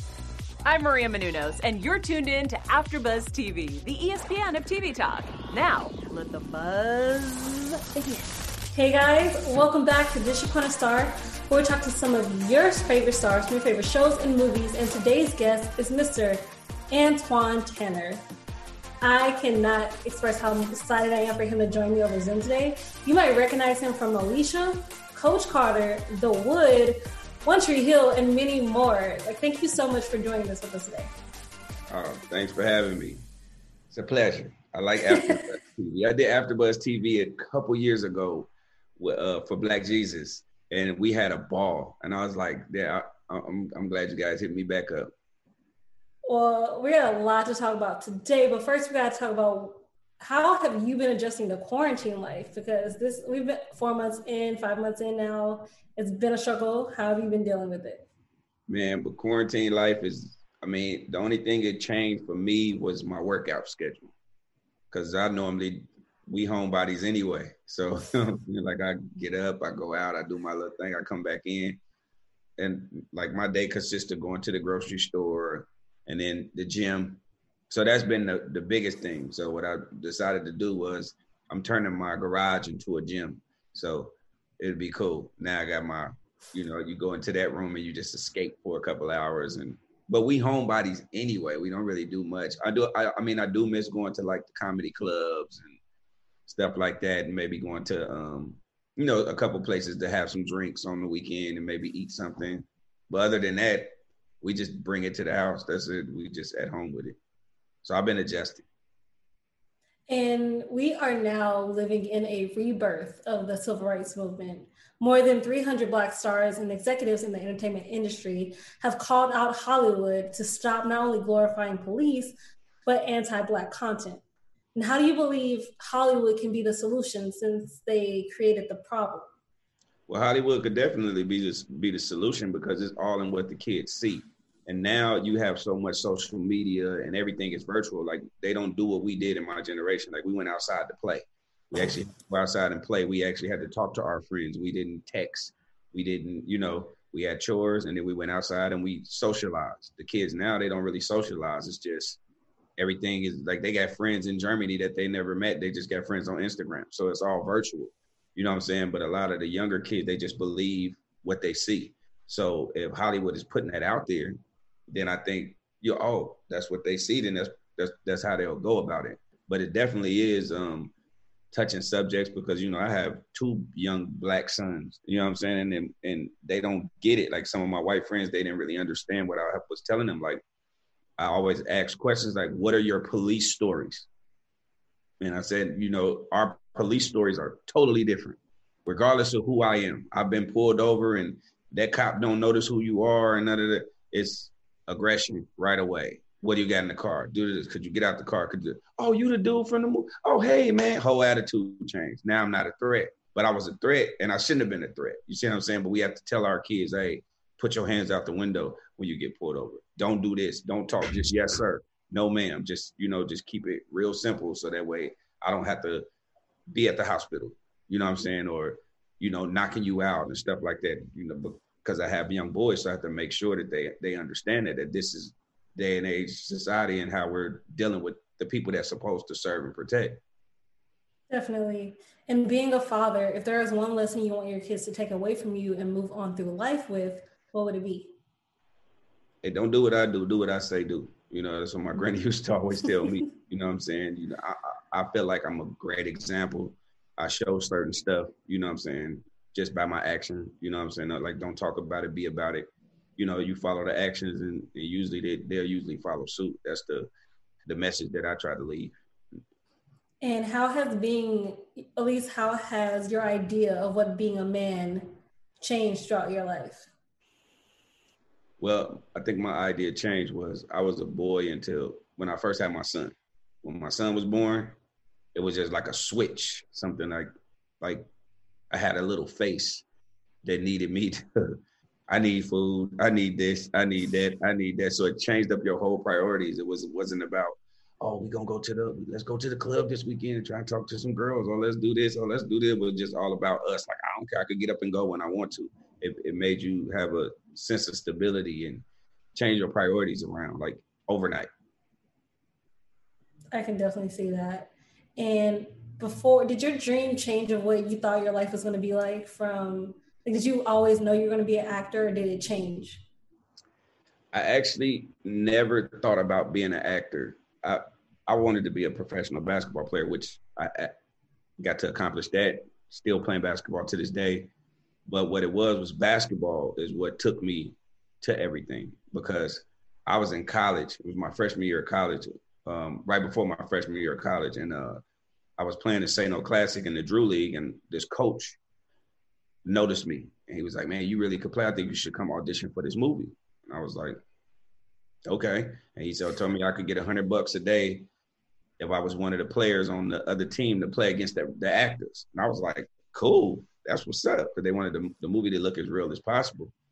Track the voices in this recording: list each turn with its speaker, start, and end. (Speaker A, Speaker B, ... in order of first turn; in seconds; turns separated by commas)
Speaker A: 0.6-8.3, Speaker B: 8.7-18.2, Speaker B: 19.0-31.1, Speaker C: 31.9-33.2, Speaker C: 33.9-45.1, Speaker B: 35.1-35.4, Speaker B: 46.2-58.1, Speaker C: 58.7-64.1, Speaker C: 64.9-71.8, Speaker C: 72.6-95.8, Speaker C: 96.5-107.2, Speaker C: 107.8-108.6, Speaker B: 110.1-124.2, Speaker B: 124.7-129.3, Speaker C: 130.1-152.2, Speaker C: 152.8-164.3, Speaker C: 164.9-170.9, Speaker C: 171.5-180.4, Speaker C: 181.2-184.1, Speaker C: 185.2-216.1, Speaker C: 216.7-230.2, Speaker B: 231.3-238.1, Speaker C: 239.4-257.1, Speaker C: 257.6-258.9, Speaker B: 260.2-266.9, Speaker C: 268.6-274.8, Speaker C: 275.3-277.3, Speaker C: 277.8-278.1, Speaker C: 278.7-279.8, Speaker C: 280.4-298.8, Speaker C: 299.3-301.5, Speaker B: 303.5-313.0, Speaker C: 314.3-320.9, Speaker C: 321.6-324.5, Speaker C: 325.1-335.0, Speaker C: 335.6-338.6, Speaker C: 339.6-344.2, Speaker C: 345.2-348.1, Speaker C: 348.8-356.7